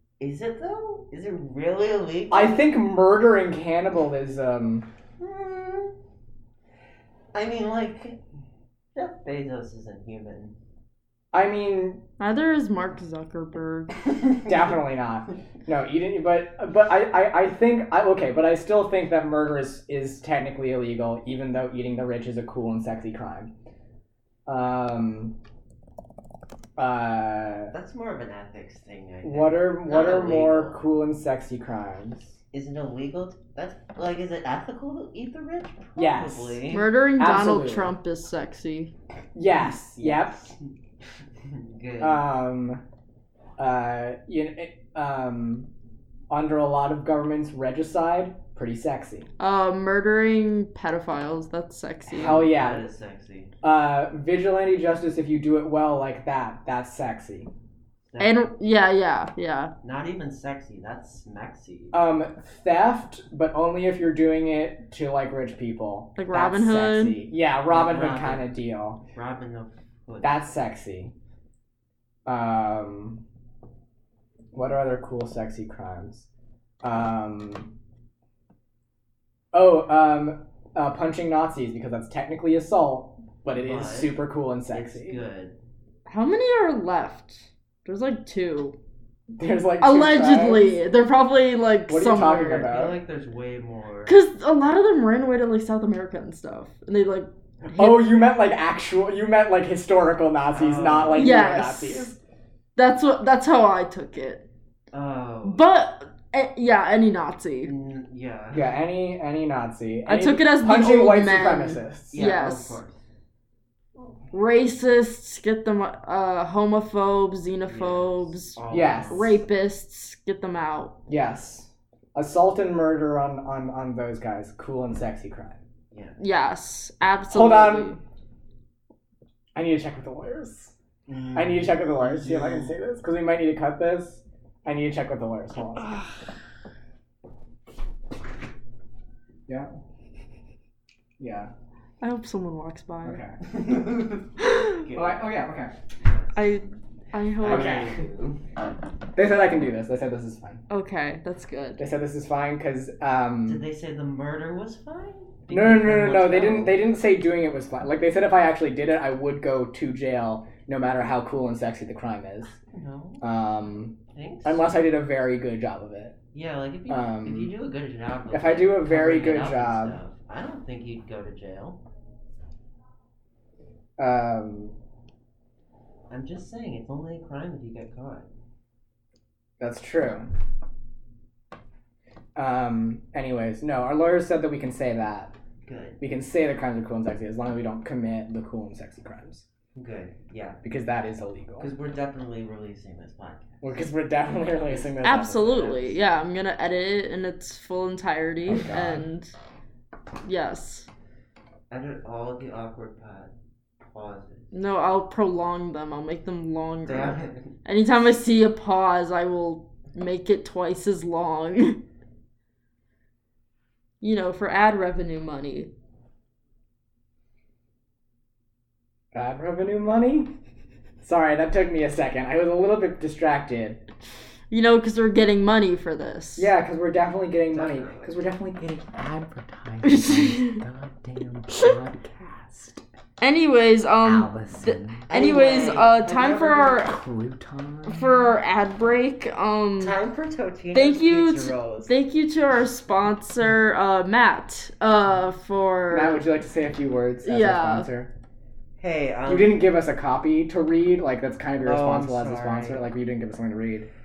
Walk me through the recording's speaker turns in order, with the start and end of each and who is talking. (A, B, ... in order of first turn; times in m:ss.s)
0:00.2-0:02.7 A
0:02.3-0:04.8 B
0:05.2-0:05.9 A
0:07.3-0:08.2 A
0:08.9-0:10.5 A
0:11.3-0:12.0 B
0:12.2-0:14.0 C
0:14.4-0:23.5 B
0:24.5-0:25.3 B
0:26.8-0:27.7 B
0:27.7-0:30.8 A
0:29.2-0:32.4 B
0:32.5-0:36.9 A
0:36.0-0:36.6 B
0:36.7-0:38.9 C
0:37.2-0:37.9 B
0:39.3-0:40.5 B
0:41.4-0:42.2 A
0:42.0-0:42.8 B
0:43.6-0:45.7 B
0:46.3-0:49.3 B
0:49.4-0:52.5 C
0:52.1-0:52.8 B
0:52.2-0:53.5 A
0:53.6-0:57.5 B
0:58.1-0:58.5 A
0:58.2-0:59.7 C
0:59.8-1:01.9 A
1:01.9-1:09.0 B
1:06.2-1:07.2 C
1:07.7-1:08.5 A
1:09.1-1:10.4 A
1:10.2-1:11.1 B
1:12.2-1:13.2 B
1:14.5-1:16.3 B
1:16.8-1:17.7 B
1:19.5-1:25.2 B
1:23.5-1:25.6 A
1:26.0-1:28.8 C
1:29.4-1:30.8 B
1:29.8-1:32.8 C
1:31.9-1:33.0 B
1:32.6-1:34.2 A
1:34.0-1:38.2 C
1:37.6-1:42.2 B
1:40.5-1:41.4 A
1:41.1-1:42.1 C
1:42.8-1:44.4 C
1:44.9-1:45.6 A
1:45.4-1:47.7 C
1:47.6-1:48.8 A
1:48.5-1:52.2 B
1:50.1-1:52.8 C
1:52.1-1:53.0 A
1:54.3-2:01.0 C
1:57.6-1:59.4 A
1:58.7-1:59.3 B
2:01.1-2:05.6 B
2:05.9-2:06.2 A
2:06.2-2:08.0 C
2:07.3-2:08.0 B
2:09.5-2:10.7 B
2:11.1-2:12.7 A
2:11.3-2:15.9 B
2:21.2-2:21.5 B
2:22.0-2:23.2 C
2:23.0-2:23.4 B
2:23.5-2:25.2 A
2:24.4-2:24.8 C
2:24.9-2:25.7 B
2:26.0-2:26.6 A
2:26.3-2:27.8 C
2:27.4-2:28.4 A
2:27.4-2:28.0 B
2:29.2-2:30.6 B
2:30.7-2:31.8 C
2:31.8-2:33.6 B
2:33.4-2:36.8 A
2:35.5-2:42.6 B
2:42.7-2:43.2 A
2:43.2-2:46.1 B
2:44.1-2:44.6 A
2:46.3-2:51.8 A
2:46.9-2:47.5 B
2:48.3-2:50.0 B
2:54.0-2:54.7 B
2:56.1-2:58.3 A
2:59.6-3:00.2 B
3:02.4-3:05.3 B
3:05.6-3:06.0 A
3:06.0-3:09.4 B
3:09.8-3:10.6 A
3:10.6-3:11.7 B
3:11.6-3:13.8 A
3:13.6-3:15.9 B
3:15.0-3:19.3 C
3:18.5-3:19.0 B
3:20.2-3:20.8 C
3:21.7-3:24.5 A
3:24.5-3:31.8 C
3:26.8-3:27.5 A
3:34.0-3:35.7 C
3:39.1-3:40.3 B
3:41.0-3:43.8 B
3:44.5-3:46.5 C
3:46.4-3:50.4 B
3:47.5-3:48.2 A
3:49.8-3:50.6 C
3:51.5-3:52.7 B
3:53.2-3:57.0 C
3:54.0-3:55.0 B
3:55.1-3:56.9 A
3:57.2-3:57.8 B
3:57.8-4:00.0 C
3:59.8-4:01.9 A
4:00.7-4:06.2 C
4:05.9-4:08.1 B
4:07.2-4:07.9 C
4:08.8-4:09.6 A
4:09.3-4:13.9 B
4:11.6-4:12.9 A